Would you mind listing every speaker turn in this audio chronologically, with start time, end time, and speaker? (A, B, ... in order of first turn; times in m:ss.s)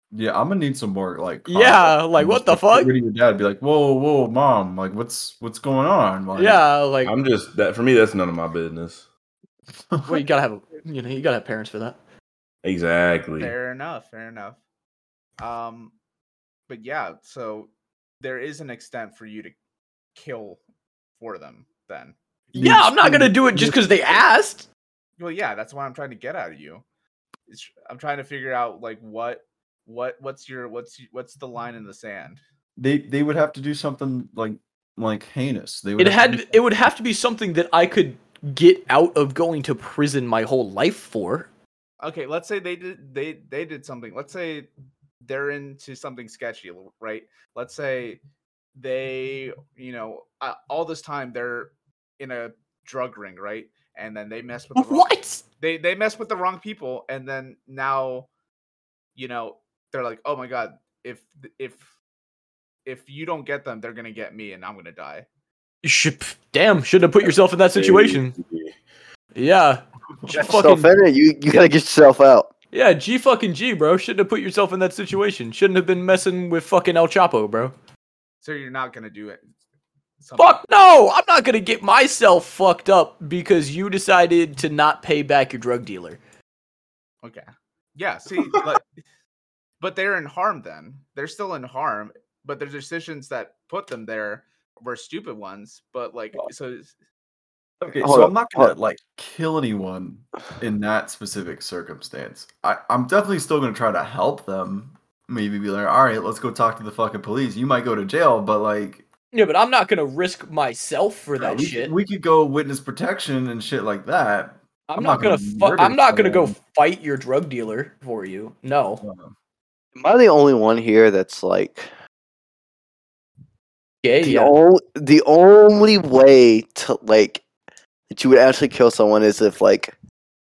0:00.1-0:06.6 A
0:01.5-0:02.9 B
0:06.3-0:07.1 B
0:07.0-0:09.0 C
0:09.9-0:10.2 A
0:10.0-0:12.0 B
0:12.6-0:13.5 C
0:13.4-0:14.6 D
0:15.4-0:15.9 D
0:16.7-0:19.5 D
0:20.1-0:20.6 D
0:21.2-0:22.2 D
0:22.5-0:23.8 A
0:22.5-0:24.7 B
0:25.2-0:26.8 D
0:27.5-0:32.4 D
0:32.8-0:36.6 A
0:36.0-0:41.5 B
0:42.0-0:44.7 D
0:45.2-0:48.2 D
0:48.7-0:58.3 D
0:54.7-0:55.4 B
0:59.1-1:01.9 D
1:02.8-1:05.2 D
1:05.8-1:08.4 B
1:07.2-1:08.8 C
1:09.3-1:10.9 B
1:10.3-1:12.5 E
1:12.7-1:17.7 B
1:18.4-1:19.4 D
1:20.2-1:20.6 D
1:20.4-1:26.2 B
1:27.2-1:28.8 D
1:29.8-1:36.9 D
1:37.8-1:49.0 A
1:38.0-1:38.7 E
1:49.3-1:51.9 B
1:51.4-1:56.6 A
1:54.9-1:59.0 B
1:59.0-1:59.3 A
2:00.0-2:01.9 E
2:04.0-2:04.5 B
2:04.2-2:07.4 E
2:08.1-2:09.9 E